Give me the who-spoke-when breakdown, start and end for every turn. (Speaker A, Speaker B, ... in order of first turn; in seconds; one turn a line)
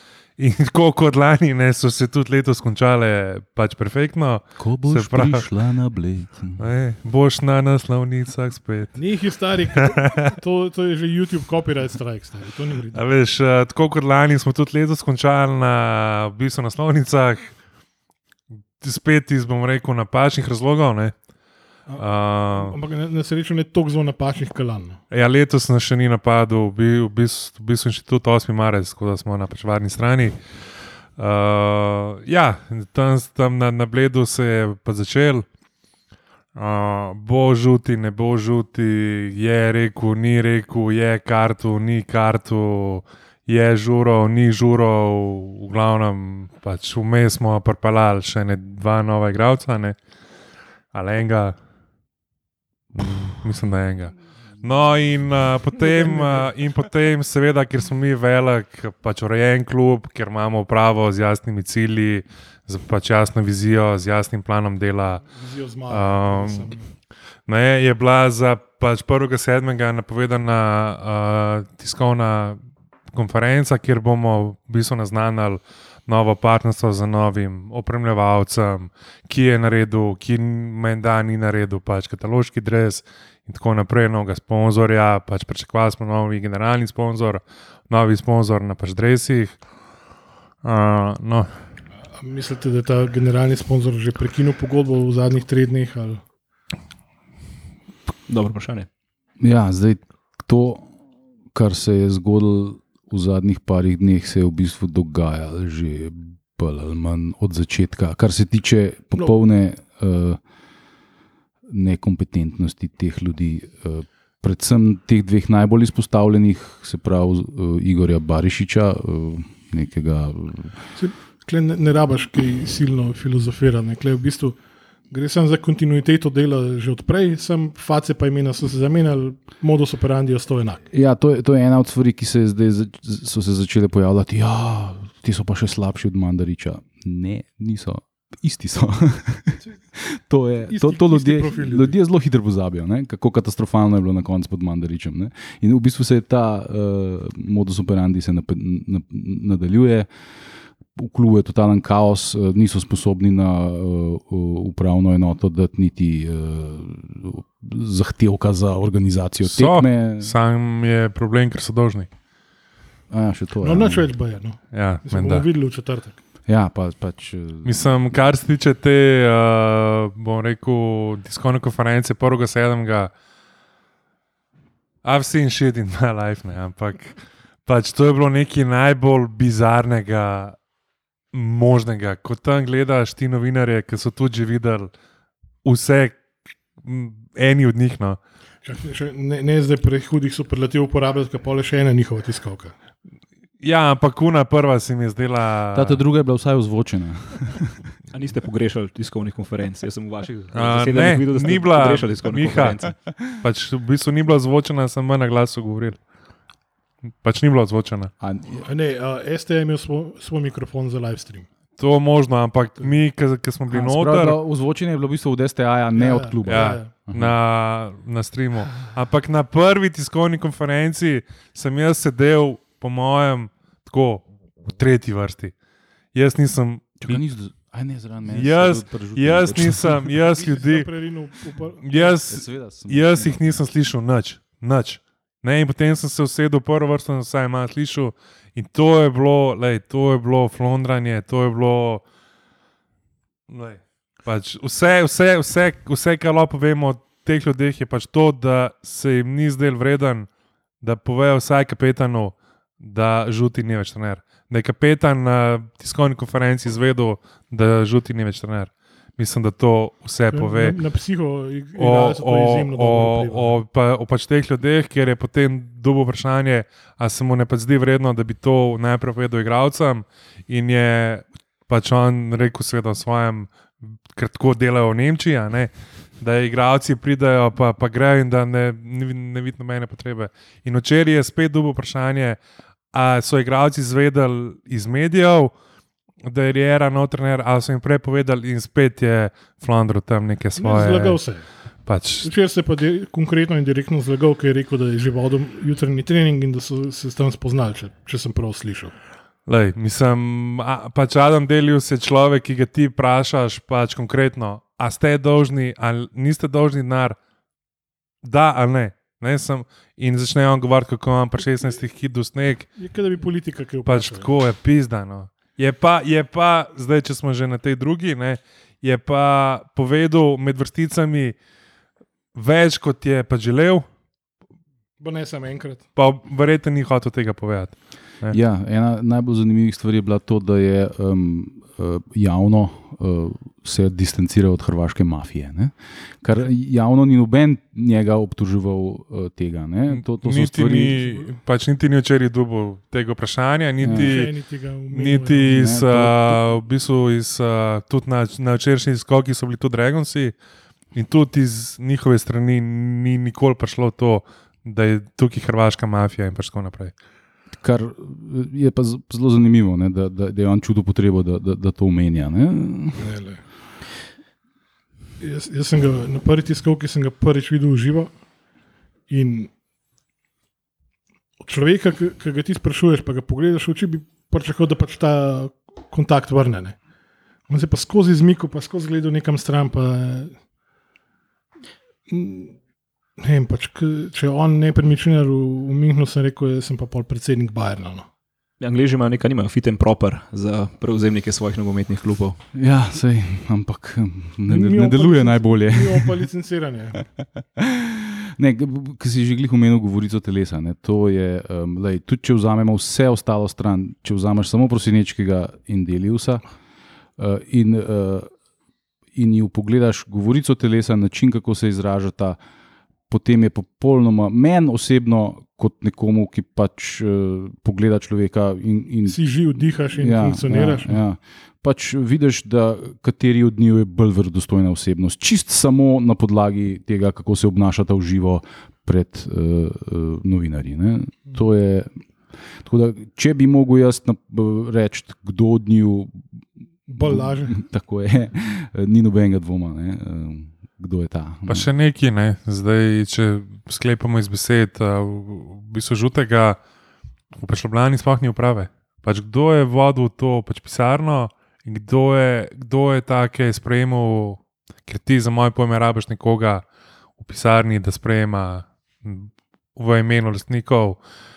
Speaker A: 0.4-5.4
Speaker B: 4.6-6.6
Speaker A: 6.6-9.0
Speaker C: 8.9-13.0
Speaker A: 12.9-17.6
Speaker A: 18.8-21.1
Speaker C: 21.9-25.0
Speaker A: 22.0-22.8
Speaker A: 25.1-30.4
Speaker A: 31.2-35.5
Speaker A: 36.5-50.0
Speaker A: 50.9-51.6
Speaker A: 52.9-65.3
Speaker C: 56.1-56.4
Speaker C: 65.3-66.9
Speaker A: 65.9-66.8
Speaker A: 67.5-72.6
Speaker A: 73.1-89.6
Speaker A: 90.6-91.5
Speaker C: 92.2-96.2
Speaker D: 98.3-98.9
Speaker B: 99.4-100.9
Speaker B: 101.5-110.4
Speaker B: 111.7-120.8
Speaker C: 121.0-124.6
Speaker C: 125.1-130.8
Speaker B: 130.9-150.1
Speaker C: 140.7-142.0
Speaker B: 150.9-160.3
Speaker A: 159.5-162.1
Speaker B: 163.1-164.1
Speaker C: 163.6-166.2
Speaker A: 164.7-165.5
Speaker B: 166.5-167.9
Speaker A: 167.6-173.1
Speaker A: 175.0-180.6
Speaker A: 181.3-184.9
Speaker A: 185.6-186.2
Speaker A: 186.8-188.2
Speaker C: 188.6-192.8
Speaker A: 193.6-196.0
Speaker B: 195.7-197.9
Speaker D: 198.1-203.0
Speaker A: 200.5-206.0
Speaker A: 207.2-208.1
Speaker B: 208.2-208.7
Speaker C: 208.7-211.5
Speaker A: 211.8-214.4
Speaker B: 213.7-217.3
Speaker C: 216.0-216.9
Speaker A: 216.5-225.5
Speaker A: 226.1-227.2
Speaker B: 227.0-230.1
Speaker A: 228.3-230.9
Speaker C: 230.2-232.2
Speaker A: 231.8-242.0
Speaker B: 232.2-233.6
Speaker A: 243.5-250.3
Speaker A: 250.8-260.8
Speaker C: 260.3-263.6
Speaker A: 261.8-273.5
Speaker A: 274.1-282.4
Speaker A: 282.9-285.5
Speaker A: 286.2-291.2
Speaker C: 290.6-291.5
Speaker A: 291.9-292.3
Speaker C: 292.2-298.9
Speaker A: 299.5-307.2
Speaker A: 308.2-312.8
Speaker C: 312.8-314.3
Speaker A: 313.9-321.4
Speaker A: 322.4-323.9
Speaker C: 325.0-325.8
Speaker A: 326.0-328.4
Speaker B: 328.3-341.0
Speaker A: 339.9-344.3
Speaker B: 343.8-344.2
Speaker C: 343.9-345.7
Speaker A: 344.9-350.3
Speaker B: 345.5-346.4
Speaker A: 350.9-356.9
Speaker B: 357.5-363.1
Speaker C: 363.0-363.4
Speaker C: 365.2-368.1
Speaker C: 369.1-369.5
Speaker C: 371.4-376.8
Speaker C: 377.5-380.4
Speaker C: 382.1-382.6
Speaker C: 383.2-388.1
Speaker D: 388.6-392.4
Speaker B: 392.5-396.2
Speaker C: 394.5-397.0
Speaker B: 397.2-406.4
Speaker B: 407.2-408.3
Speaker B: 409.1-412.4
Speaker B: 413.1-432.0
Speaker C: 419.1-421.0
Speaker B: 432.6-436.4
Speaker C: 436.9-437.6
Speaker B: 437.0-441.7
Speaker A: 441.5-446.6
Speaker A: 447.4-456.6
Speaker A: 457.2-461.0